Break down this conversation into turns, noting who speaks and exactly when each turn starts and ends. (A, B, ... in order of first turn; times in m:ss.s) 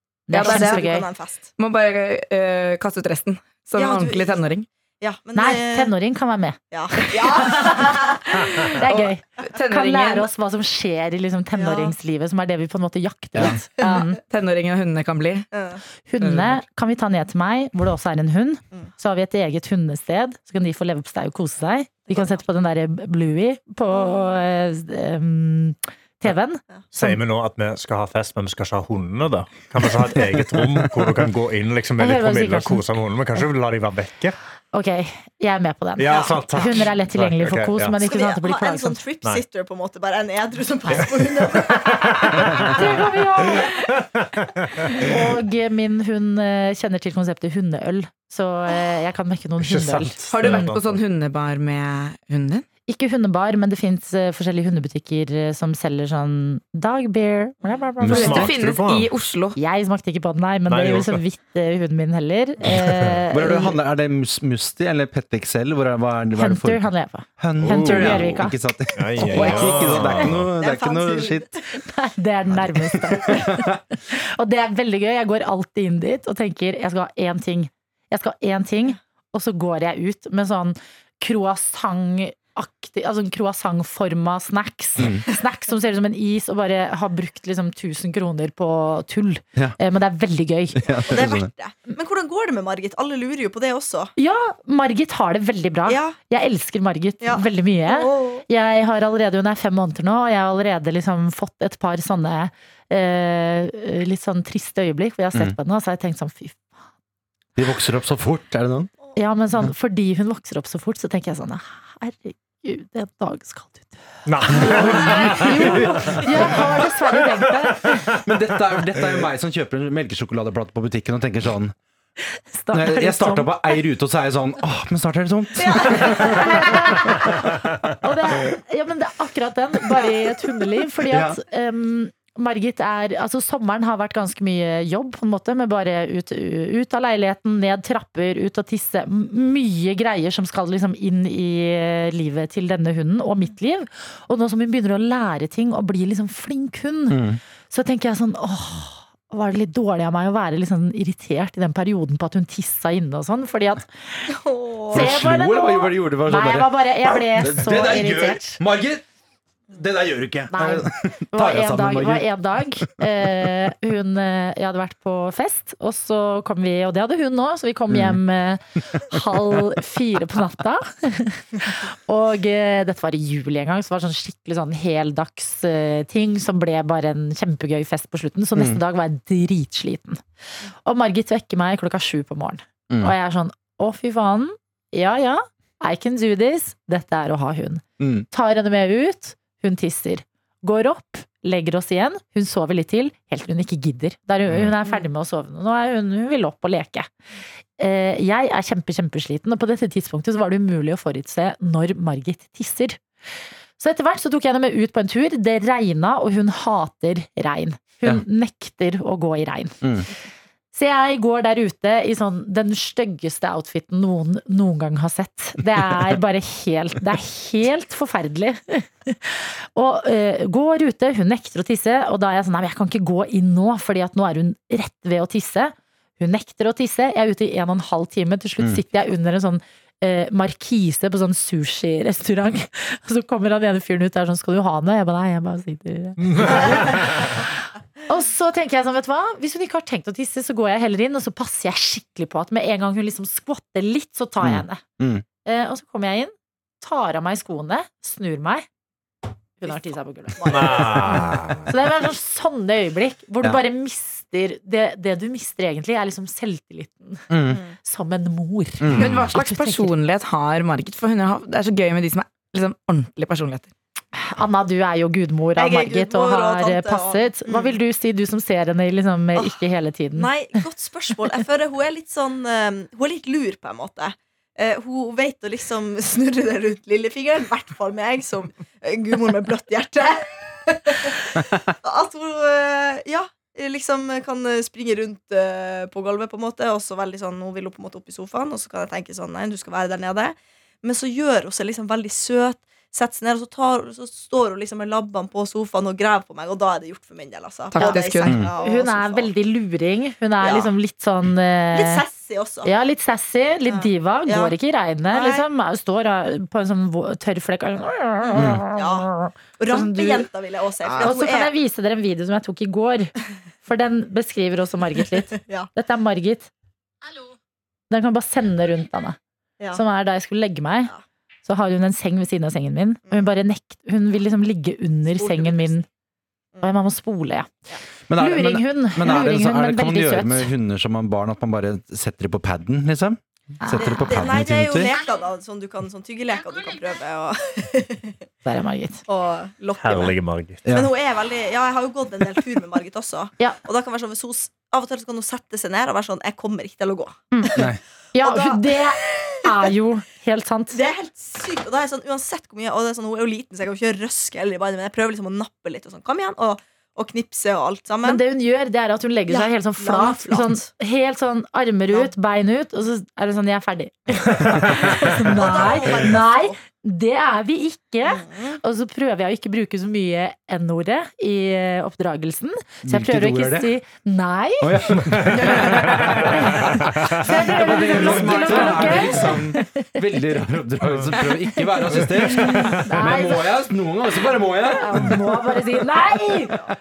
0:00.3-0:01.0 A
0:00.3-0:00.9 B
0:00.4-0:01.5 C
0:01.6-0:04.7 B
0:03.8-0:04.4 C
0:05.0-0:05.9 C
0:05.3-0:14.2 A
0:06.7-0:08.4 C
0:08.8-0:10.3 B
0:11.5-0:11.9 C
0:13.8-0:15.5 B
0:15.5-0:15.8 C
0:16.1-0:27.2 A
0:16.2-0:16.6 B
0:22.1-0:22.4 C
0:23.9-0:24.3 C
0:26.9-0:34.4 D
0:30.3-0:31.0 E
0:32.0-0:32.8 A
0:34.7-0:39.0 A
0:36.0-0:38.0 D
0:36.1-0:36.8 C
0:38.0-0:42.8 C
0:40.9-0:43.0 D
0:42.6-0:43.8 A
0:44.1-0:45.1 D
0:44.9-0:50.7 A
0:49.6-0:51.0 D
0:50.3-0:52.6 B
0:52.9-0:58.5 A
0:58.0-0:59.1 D
0:58.0-0:59.6 B
0:59.6-1:03.8 A
1:00.7-1:01.2 D
1:02.7-1:03.1 D
1:03.3-1:11.5 E
1:06.4-1:08.6 A
1:07.6-1:08.4 D
1:08.9-1:10.5 D
1:09.2-1:10.1 A
1:10.5-1:11.6 C
1:11.7-1:30.9 A
1:12.5-1:13.8 E
1:25.0-1:25.2 E
1:30.8-1:31.5 E
1:30.9-1:34.1 C
1:34.2-1:46.7 A
1:35.8-1:36.2 C
1:37.2-1:38.4 C
1:47.6-1:48.9 E
1:49.2-1:58.0 A
1:54.2-1:56.6 D
1:54.6-1:56.8 E
1:57.8-1:58.2 D
1:58.2-2:01.7 E
2:02.5-2:03.8 A
2:02.7-2:06.6 E
2:05.6-2:06.7 C
2:05.8-2:07.5 A
2:08.0-2:34.3 A
2:11.1-2:11.4 E
2:27.1-2:27.4 E
2:34.3-2:35.1 C
2:34.9-2:38.6 A
2:34.9-2:39.0 E
2:39.7-2:42.3 E
2:40.5-3:00.2 A
2:42.8-2:43.5 E
2:47.9-2:48.2 E
2:58.5-2:58.8 E
3:00.8-3:17.1 A
3:02.9-3:03.1 E
3:08.0-3:08.3 E
3:17.8-3:23.0 A
3:23.8-3:29.7 A
3:29.8-3:30.1 E
3:30.7-4:04.8 A
3:35.9-3:36.1 E
3:56.2-3:57.4 D
4:04.4-4:05.2 E
4:05.4-4:08.6 A
4:09.6-4:10.8 A
4:09.6-4:11.3 C
4:10.5-4:11.6 D
4:11.1-4:11.4 E
4:11.7-4:17.3 A
4:17.3-4:17.6 E
4:17.8-4:19.9 A
4:18.8-4:19.2 E
4:19.0-4:23.7 B
4:24.1-4:30.3 A
4:25.5-4:27.8 C
4:30.2-4:59.3 C
4:57.7-4:58.4 B
4:57.8-4:58.0 A
4:58.3-4:58.5 E
4:58.6-5:02.0 A
5:00.4-5:00.7 C
5:01.7-5:02.7 C
5:02.6-5:10.3 A
5:03.7-5:04.5 C
5:05.1-5:05.4 C
5:08.3-5:08.6 E
5:08.7-5:11.5 C
5:11.0-5:13.1 A
5:13.6-5:16.5 A
5:17.9-5:19.2 A
5:19.7-5:20.9 A
5:21.4-5:25.8 A
5:25.2-5:25.8 C
5:26.6-5:27.5 A
5:28.1-5:34.9 E
5:28.2-5:30.5 A
5:33.6-5:34.2 A
5:33.8-5:38.2 C
5:38.4-5:39.0 A
5:39.1-5:49.7 C
5:39.8-5:40.6 D
5:40.6-5:40.9 E
5:47.5-5:47.8 E
5:48.1-5:50.8 A
5:50.7-5:58.2 C
5:58.0-6:14.7 A
5:59.3-6:00.7 C
6:04.7-6:06.6 C
6:08.0-6:08.6 C
6:12.8-6:13.7 E
6:14.6-6:25.6 E
6:15.1-6:16.3 D
6:15.3-6:20.0 A
6:15.4-6:16.2 C
6:16.9-6:17.2 D
6:21.5-6:23.5 A
6:22.0-6:22.5 D
6:24.8-6:26.6 A